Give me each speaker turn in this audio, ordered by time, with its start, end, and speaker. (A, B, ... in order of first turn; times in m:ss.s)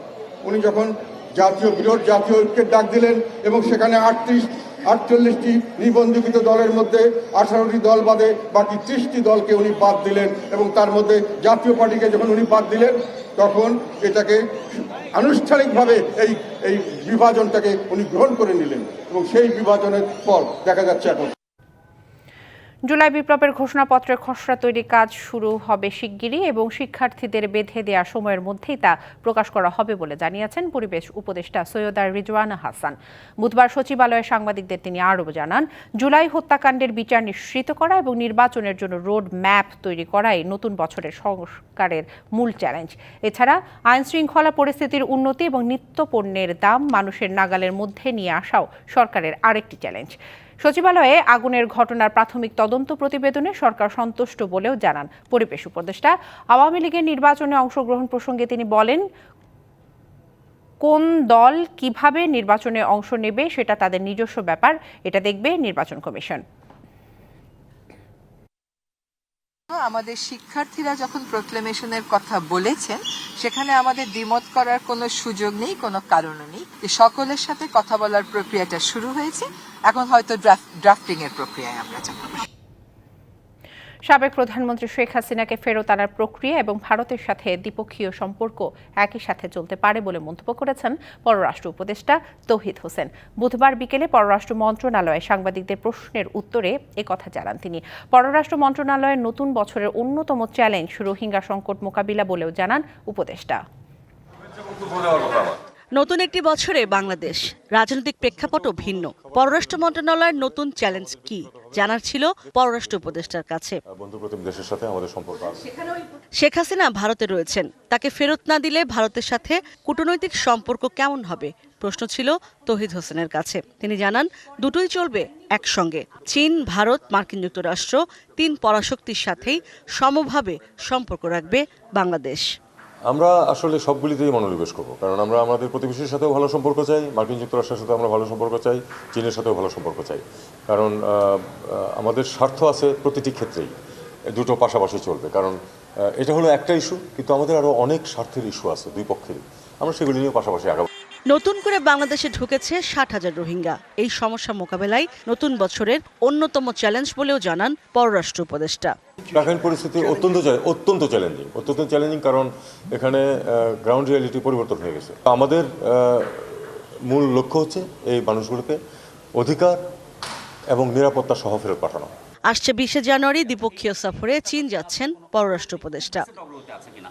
0:00.4-0:21.3 A
0:22.9-0:59.0 B
1:00.8-1:06.4 B
1:09.7-1:22.4 C
1:24.1-1:43.6 B
1:46.0-1:53.8 D
1:53.9-1:55.6 E
1:56.4-2:12.4 D
2:13.1-2:23.7 E
2:24.3-2:25.6 E
2:26.2-2:30.9 E
2:31.3-2:38.9 D
2:39.3-2:48.8 E
2:49.4-2:49.8 E
2:50.7-2:52.1 E
2:52.5-2:56.2 D